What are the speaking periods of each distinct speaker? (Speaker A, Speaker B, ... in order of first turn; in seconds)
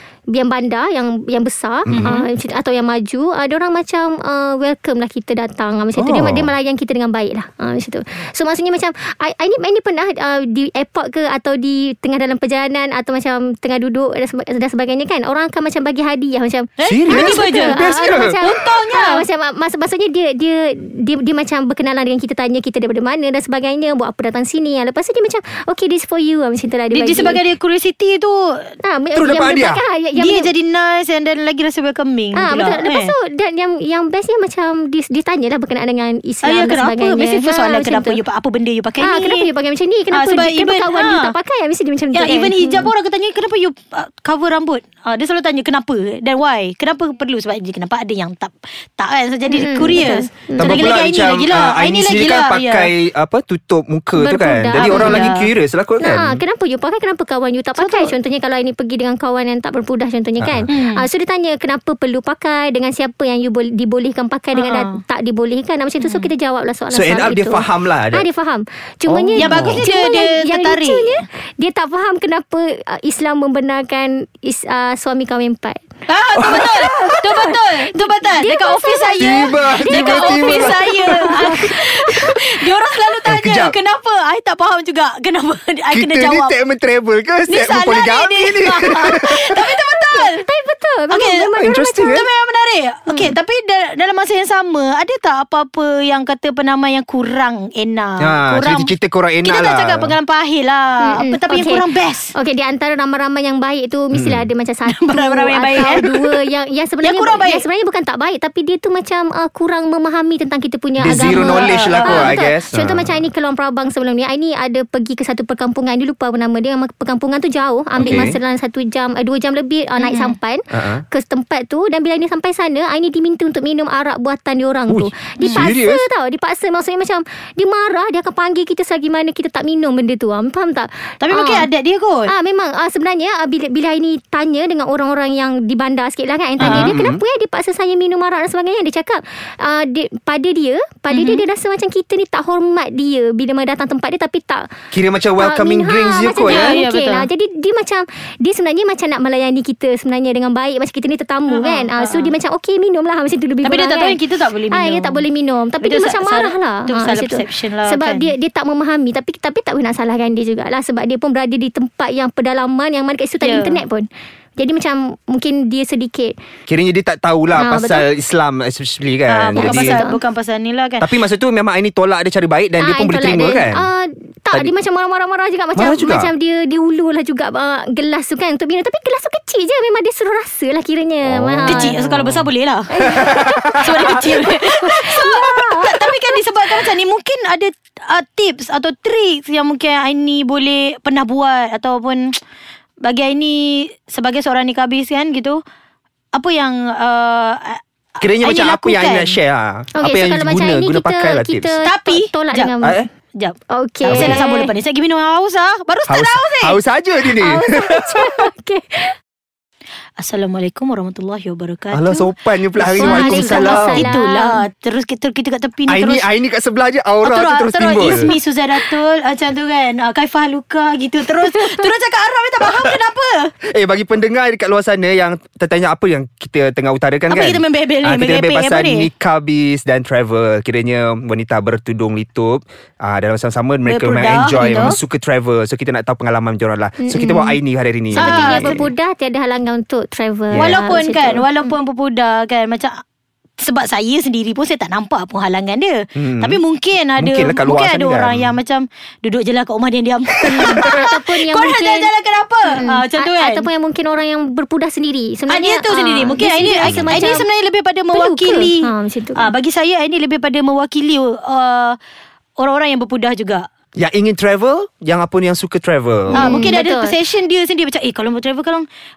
Speaker A: 0.3-27.4, 28.8-30.5, 32.3-38.2, 39.0-42.9, 49.5-50.9, 54.1-55.3, 56.0-75.8, 77.0-82.3, 90.1-92.2, 93.1-93.3, 101.0-101.8, 102.3-131.7, 132.3-144.7, 145.4-154.2, 154.7-166.3, 167.5-168.1, 169.5-170.2, 172.8-181.9, 182.9-186.4, 200.0-203.0, 203.7-204.7, 207.4-209.1, 213.0-214.6, 218.0-218.3, 221.5-221.8, 237.0-237.6, 238.1-241.7, 250.5-252.1, 252.7-257.5, 258.1-259.5, 266.3-267.1
Speaker B: 1.9-2.2, 6.0-6.5, 16.8-18.4, 29.1-29.8, 50.6-56.4, 60.4-60.7, 66.9-68.2, 69.1-69.8, 76.3-77.3, 79.2-81.3, 83.2-83.7, 85.9-89.6, 91.5-92.2, 98.2-100.2, 104.1-104.5, 111.0-113.2, 118.0-118.3, 120.7-121.0, 124.9-126.0, 136.6-137.2, 144.9-146.8, 166.7-170.0, 171.0-173.9, 175.8-176.3, 181.2-182.4, 183.0-184.3, 185.1-185.7, 198.2-201.8, 202.8-203.1, 204.1-204.4, 206.1-208.5, 211.9-214.1, 215.9-218.3, 222.6-222.9, 223.7-238.9, 240.5-240.8, 246.2-246.6, 247.2-248.6, 250.5-251.0, 256.8-257.4, 264.0-266.6
Speaker C: 1.9-2.3, 16.8-17.8, 18.4-19.2, 26.9-28.7, 30.2-33.1, 36.4-39.5, 40.1-41.4, 42.1-52.9, 54.8-55.5, 57.8-58.1, 60.7-61.0, 64.5-65.0, 66.0-66.3, 69.3-71.2, 76.1-86.5, 87.5-90.4, 91.1-98.9, 99.4-102.3, 104.9-106.4, 107.0-107.6, 111.3-112.4, 118.0-118.3, 120.0-120.3, 125.4-125.7, 131.2-132.3, 136.6-136.9, 141.1-141.4, 146.4-147.3, 151.5-152.3, 153.6-155.2, 155.8-158.3, 163.4-163.8, 169.3-171.1, 181.7-182.9, 183.8-192.2, 193.0-195.6, 196.3-199.4, 201.8-202.7, 203.3-206.8, 210.2-212.3, 212.8-216.2, 217.2-223.5, 227.3-229.1, 233.9-234.9, 238.2-238.8, 240.5-243.0, 243.6-253.6, 255.5-262.0, 262.6-263.6, 266.3-268.8